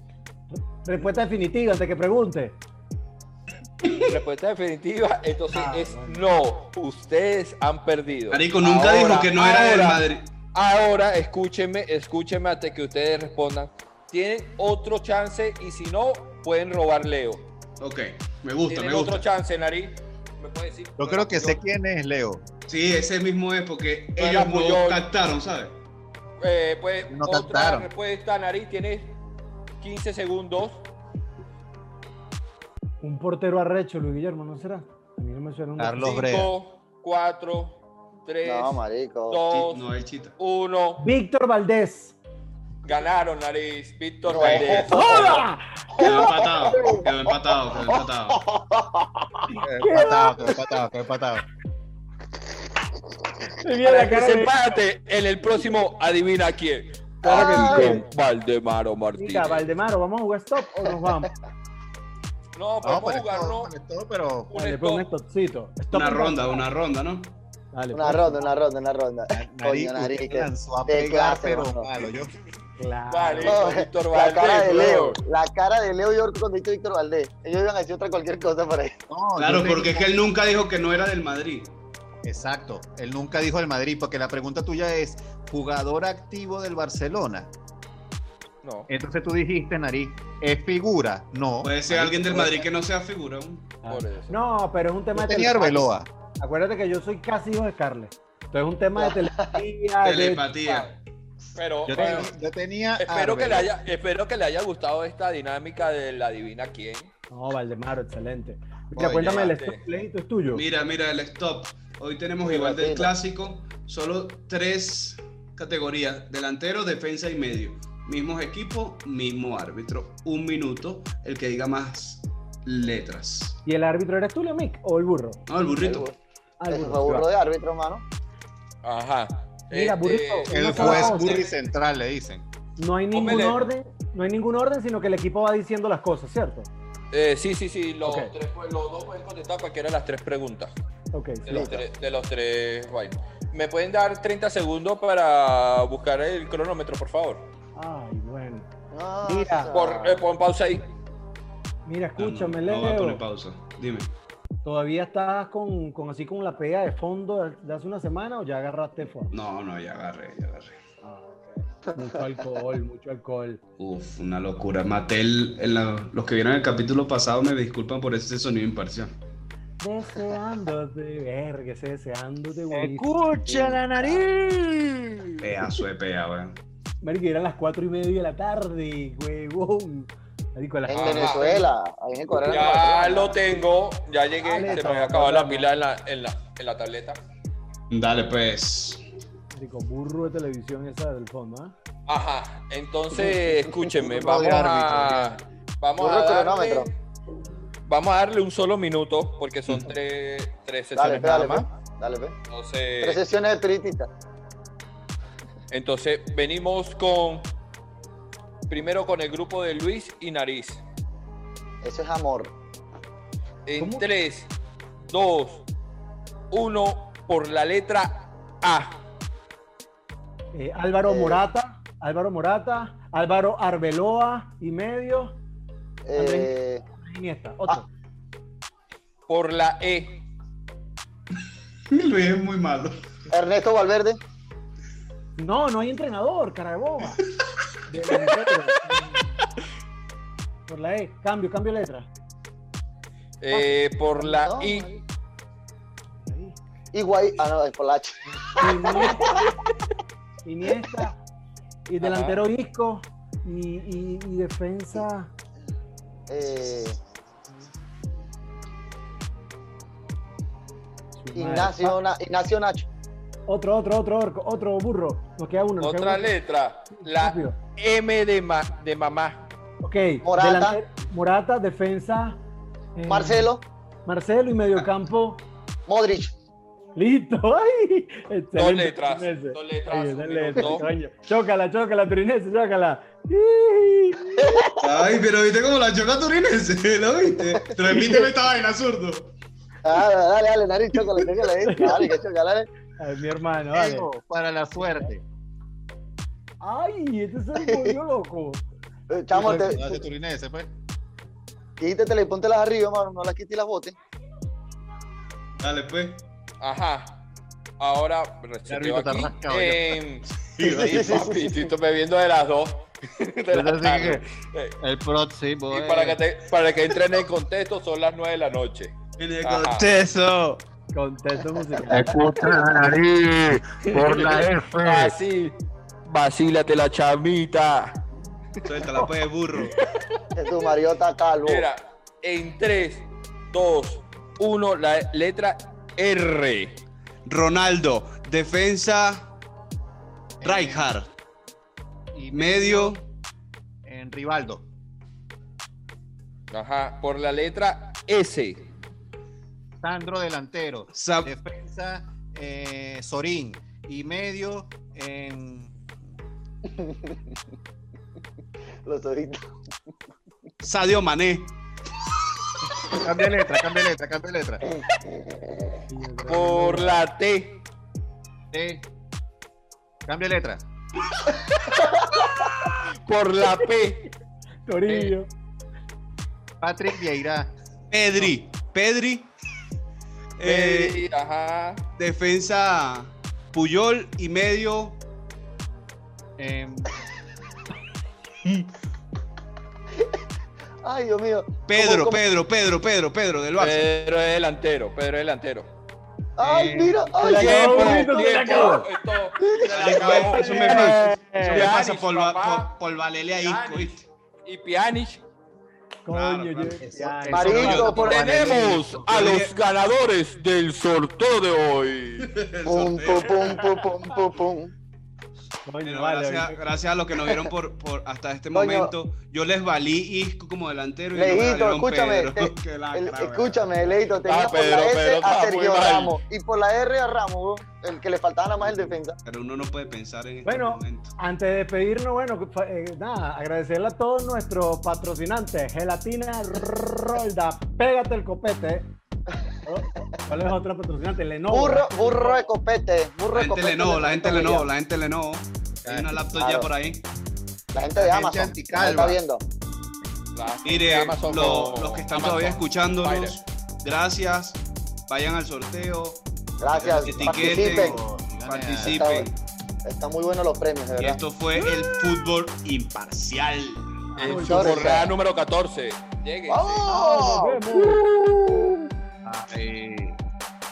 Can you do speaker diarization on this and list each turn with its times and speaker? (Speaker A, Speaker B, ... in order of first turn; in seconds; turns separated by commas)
Speaker A: 0.5-2.6, Speaker B: 4.0-17.4, Speaker A: 5.5-6.2, Speaker C: 8.3-10.2, Speaker C: 17.8-19.2, Speaker B: 18.7-21.6, Speaker D: 21.0-22.4, Speaker C: 22.7-25.7, Speaker B: 24.2-25.0, Speaker B: 26.4-29.1, Speaker D: 27.1-27.9, Speaker B: 29.8-30.8, Speaker A: 33.0-36.2, Speaker D: 35.8-36.5, Speaker B: 36.0-39.8, Speaker E: 38.4-39.4, Speaker C: 39.5-40.4, Speaker B: 40.4-41.0, Speaker A: 41.0-42.2, Speaker B: 42.8-45.4, Speaker E: 44.2-45.4, Speaker C: 44.4-44.8, Speaker A: 44.9-45.8, Speaker E: 46.0-47.1, Speaker C: 46.0-48.4, Speaker E: 47.7-49.1, Speaker D: 49.6-51.4, Speaker A: 49.8-50.5, Speaker E: 50.0-50.6, Speaker A: 53.6-54.8, Speaker B: 53.8-59.7, Speaker E: 57.2-58.0, Speaker A: 57.2-58.0, Speaker A: 59.1-61.3, Speaker B: 62.5-63.7, Speaker D: 62.8-64.5, Speaker B: 64.5-65.1, Speaker A: 64.5-66.6, Speaker C: 65.9-67.3, Speaker A: 67.7-68.5, Speaker E: 67.9-71.9, Speaker D: 69.3-72.3, Speaker A: 72.8-73.6, Speaker B: 73.1-75.2, Speaker E: 73.4-79.0, Speaker D: 79.1-80.1, Speaker C: 79.4-81.7, Speaker D: 82.2-87.5, Speaker B: 88.6-88.9, Speaker D: 88.9-92.7, Speaker C: 91.6-93.7, Speaker A: 93.8-100.5, Speaker B: 93.9-94.3, Speaker D: 95.1-96.1, Speaker E: 99.0-99.6, Speaker C: 100.0-100.9, Speaker B: 101.5-102.3, Speaker D: 101.8-103.7, Speaker B: 103.0-107.1, Speaker A: 107.3-110.6, Speaker D: 108.9-109.5, Speaker B: 109.2-109.8, Speaker C: 110.5-123.6, Speaker E: 112.4-113.1, Speaker A: 123.7-125.4, Speaker C: 125.5-126.1, Speaker E: 125.8-126.2, Speaker A: 126.6-127.3, Speaker E: 126.7-128.0, Speaker B: 128.8-131.4, Speaker A: 129.7-131.4, Speaker D: 130.5-132.4, Speaker A: 132.8-136.7, Speaker B: 133.1-133.6, Speaker B: 137.1-140.7, Speaker A: 138.0-138.3, Speaker A: 141.1-141.7, Speaker B: 141.4-147.4, Speaker E: 141.5-141.8, Speaker A: 147.8-148.7, Speaker E: 148.9-150.2, Speaker A: 149.2-149.7, Speaker B: 149.7-150.9, Speaker A: 151.8-153.2, Speaker C: 152.2-154.1, Speaker A: 154.6-159.4, Speaker C: 159.3-160.8, Speaker A: 161.0-163.6, Speaker C: 163.8-169.1, Speaker A: 169.8-174.1, Speaker D: 172.7-175.5, Speaker C: 175.4-176.6, Speaker A: 177.0-181.7, Speaker E: 180.8-183.4, Speaker B: 180.9-181.7, Speaker B: 182.4-187.2, Speaker A: 184.4-185.7, Speaker C: 187.9-189.0, Speaker A: 189.5-191.7, Speaker B: 192.1-196.9, Speaker D: 193.9-195.3, Speaker E: 196.0-196.9, Speaker B: 197.8-201.7, Speaker E: 200.9-202.3, Speaker B: 202.5-203.2, Speaker E: 203.0-204.1, Speaker B: 205.7-207.5, Speaker B: 208.7-210.8, Speaker E: 211.8-212.5, Speaker B: 213.7-214.5, Speaker A: 213.8-214.1, Speaker B: 215.0-215.6, Speaker B: 216.5-219.0, Speaker A: 220.5-225.4, Speaker E: 221.1-221.4, Speaker E: 226.1-226.8, Speaker A: 226.1-227.9, Speaker B: 229.3-230.2, Speaker C: 231.9-233.0, Speaker E: 233.3-234.2, Speaker A: 235.4-237.2, Speaker A: 237.9-239.4, Speaker B: 238.2-238.6, Speaker A: 240.7-242.1, Speaker B: 243.4-244.9, Speaker E: 244.2-244.8, Speaker A: 246.2-246.6, Speaker E: 246.9-249.1, Speaker A: 248.5-249.5, Speaker A: 250.4-251.2, Speaker A: 251.9-255.3, Speaker B: 252.0-252.4, Speaker E: 256.3-257.0, Speaker A: 261.2-262.0, Speaker E: 261.3-262.9, Speaker A: 263.5-266.3, Speaker B: 265.8-269.4, Speaker A: 267.0-267.6, Speaker A: 269.8-272.4, Speaker E: 270.2-270.8, Speaker A: 272.9-273.5, Speaker E: 273.1-273.6, Speaker A: 274.1-275.4, Speaker E: 275.9-276.3, Speaker A: 276.9-284.5, Speaker B: 278.5-280.9, Speaker E: 284.4-284.8, Speaker C: 284.8-289.3, Speaker E: 287.5-288.2, Speaker E: 289.8-292.7, Speaker A: 291.6-292.1, Speaker A: 293.0-294.1, Speaker D: 293.7-295.2, Speaker A: 294.8-295.1, Speaker A: 296.6-298.6, Speaker E: 297.6-298.0, Speaker E: 299.1-300.0, Speaker D: 299.3-300.7, Speaker E: 301.8-303.9, Speaker C: 305.6-306.2, Speaker B: 306.6-307.2, Speaker B: 307.8-314.7, Speaker D: 308.7-310.0, Speaker E: 310.6-311.7, Speaker D: 313.5-314.2, Speaker D: 314.8-316.2, Speaker B: 315.7-318.9, Speaker C: 319.2-320.6, Speaker B: 319.4-319.9, Speaker A: 320.9-322.2, Speaker D: 321.9-325.2, Speaker B: 323.8-328.0, Speaker C: 328.6-329.8, Speaker E: 330.4-331.7, Speaker B: 331.4-336.8, Speaker C: 337.2-339.3, Speaker D: 340.4-340.9, Speaker C: 340.4-341.1, Speaker D: 342.1-343.0, Speaker C: 342.3-343.0, Speaker D: 343.9-344.6, Speaker B: 346.5-348.6, Speaker D: 349.8-355.7, Speaker C: 350.9-351.3, Speaker E: 356.7-357.1, Speaker E: 358.8-359.5, Speaker C: 360.6-361.6, Speaker D: 363.0-364.6, Speaker A: 365.9-367.1, Speaker B: 366.3-367.6, Speaker D: 368.5-368.8, Speaker D: 370.1-370.6, Speaker B: 372.2-374.1, Speaker A: 374.6-375.3, Speaker D: 374.9-375.1, Speaker D: 376.6-377.5, Speaker C: 377.9-379.3, Speaker C: 380.4-381.0, Speaker B: 380.4-381.8, Speaker C: 382.0-385.0, Speaker D: 386.4-386.9, Speaker E: 390.8-392.2, Speaker C: 391.7-393.9, Speaker B: 393.6-395.7, Speaker E: 396.4-398.4, Speaker D: 396.4-397.1, Speaker A: 397.2-398.9, Speaker B: 397.2-402.7, Speaker E: 399.4-400.1, Speaker C: 399.6-404.1, Speaker A: 400.1-401.7, Speaker B: 403.4-405.2, Speaker A: 406.0-408.0, Speaker C: 406.1-406.8, Speaker D: 406.8-409.1, Speaker E: 407.3-408.6, Speaker C: 407.4-408.3, Speaker B: 407.8-412.3, Speaker C: 409.0-409.5, Speaker C: 412.2-413.7, Speaker E: 412.6-414.7, Speaker A: 415.6-416.6, Speaker C: 415.8-424.0, Speaker E: 418.5-418.9, Speaker E: 421.1-429.1, Speaker B: 424.2-426.2, Speaker C: 429.2-431.1, Speaker A: 430.4-438.9, Speaker A: 439.6-442.4, Speaker E: 441.5-444.7, Speaker C: 443.3-447.0, Speaker D: 445.8-446.2, Speaker E: 446.3-446.7, Speaker E: 447.7-449.4, Speaker D: 447.9-449.2, Speaker B: 450.3-453.4, Speaker C: 450.6-459.3, Speaker E: 456.6-458.0, Speaker D: 457.1-459.0, Speaker E: 458.8-459.3, Speaker E: 459.8-461.2, Speaker C: 461.0-464.0, Speaker A: 464.1-465.0, Speaker B: 464.2-466.9, Speaker E: 464.3-465.1, Speaker E: 466.5-467.8, Speaker A: 466.9-468.0, Speaker B: 467.8-468.8, Speaker D: 469.2-470.2